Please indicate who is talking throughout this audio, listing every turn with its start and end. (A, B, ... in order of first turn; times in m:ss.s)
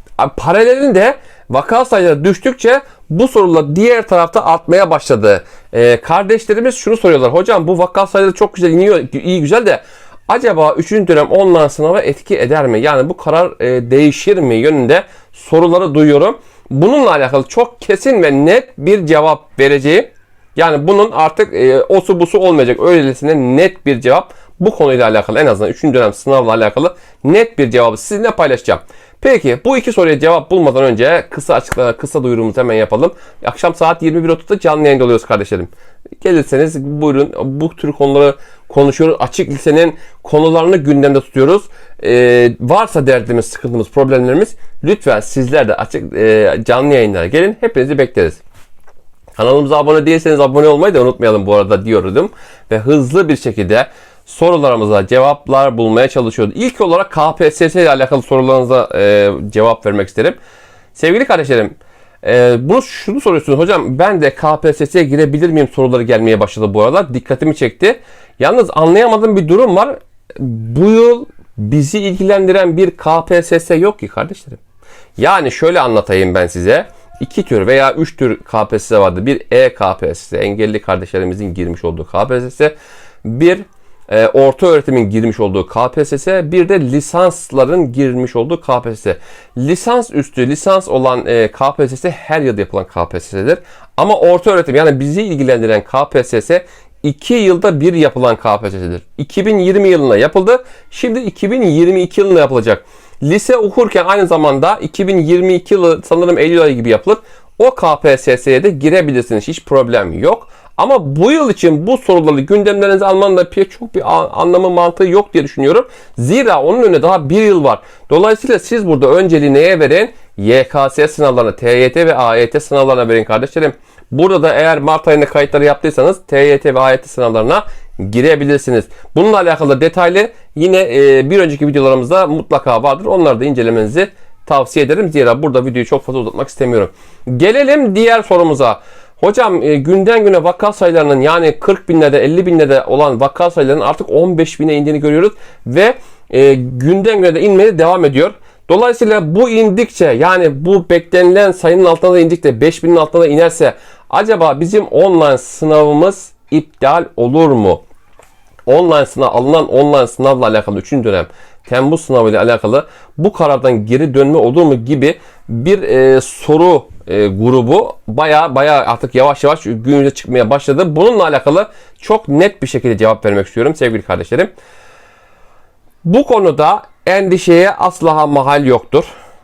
0:00.2-0:48.4 A
0:49.4-1:00.4 A
1:01.0-1:14.6 A
1:15.2-2:37.8 A
2:38.7-2:54.5 A
2:56.0-2:59.1 A